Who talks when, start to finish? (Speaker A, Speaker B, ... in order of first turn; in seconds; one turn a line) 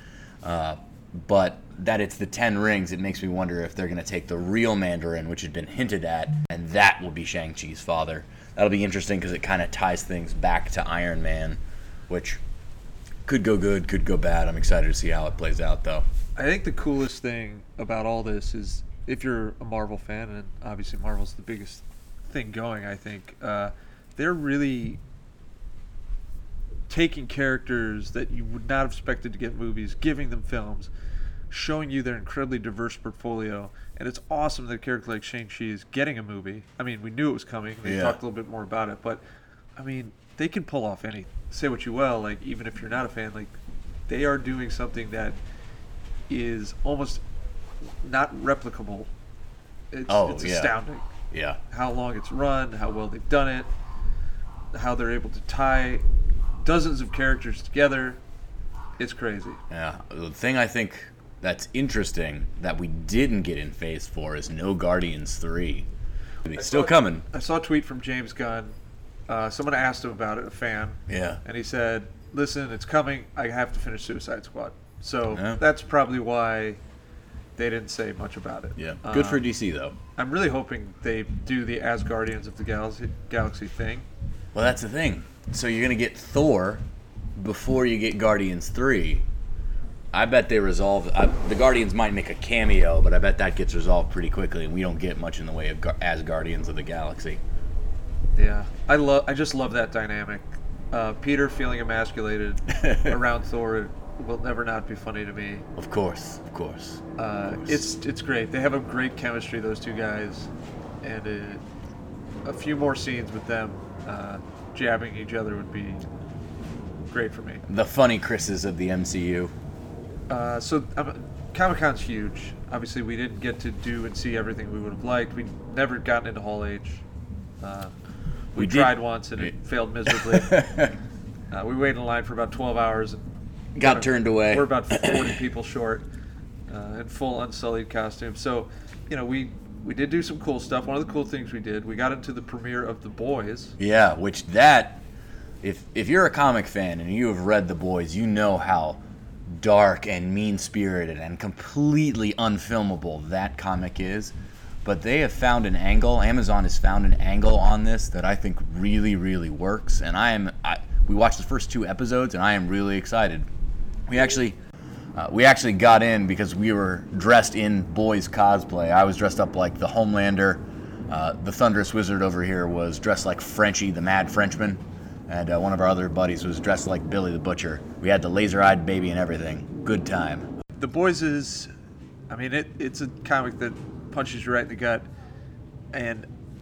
Speaker A: 0.4-12.4
Speaker A: 13.2-16.0
Speaker B: 16.4-25.0
Speaker B: 26.9-30.9
Speaker B: 31.5-39.2
Speaker A: 37.8-38.2
Speaker B: 39.8-43.6
Speaker B: 44.1-45.4
Speaker B: 46.3-47.2
Speaker B: 48.0-49.1
Speaker B: 49.9-51.1
Speaker A: 50.1-50.8
Speaker A: 51.3-51.6
Speaker B: 51.7-53.7
Speaker B: 54.7-56.0
Speaker B: 56.6-58.2
Speaker B: 59.0-59.6
Speaker A: 59.7-65.9
Speaker A: 66.4-67.2
Speaker B: 66.5-68.7
Speaker B: 69.3-76.8
Speaker A: 71.1-71.4
Speaker A: 75.3-75.6
Speaker B: 77.5-79.4
Speaker A: 78.8-79.9
Speaker B: 80.2-84.0
Speaker A: 84.5-86.8
Speaker A: 87.4-89.2
Speaker A: 90.1-97.4
Speaker B: 98.3-105.6
Speaker A: 102.7-103.2
Speaker A: 105.8-107.0
Speaker B: 107.2-110.5
Speaker B: 111.0-111.6
Speaker B: 112.4-116.0
Speaker B: 117.1-117.6
Speaker A: 117.7-119.5
Speaker B: 120.3-127.0
Speaker B: 127.6-127.9
Speaker B: 128.5-130.6
Speaker A: 128.6-129.5
Speaker A: 130.1-130.9
Speaker B: 131.5-136.1
Speaker A: 133.7-135.4
Speaker B: 136.7-143.8
Speaker A: 143.8-145.0
Speaker A: 145.6-163.5
Speaker A: 164.1-164.6
Speaker A: 165.2-180.5
Speaker B: 180.8-181.7
Speaker B: 182.3-185.1
Speaker B: 185.9-186.3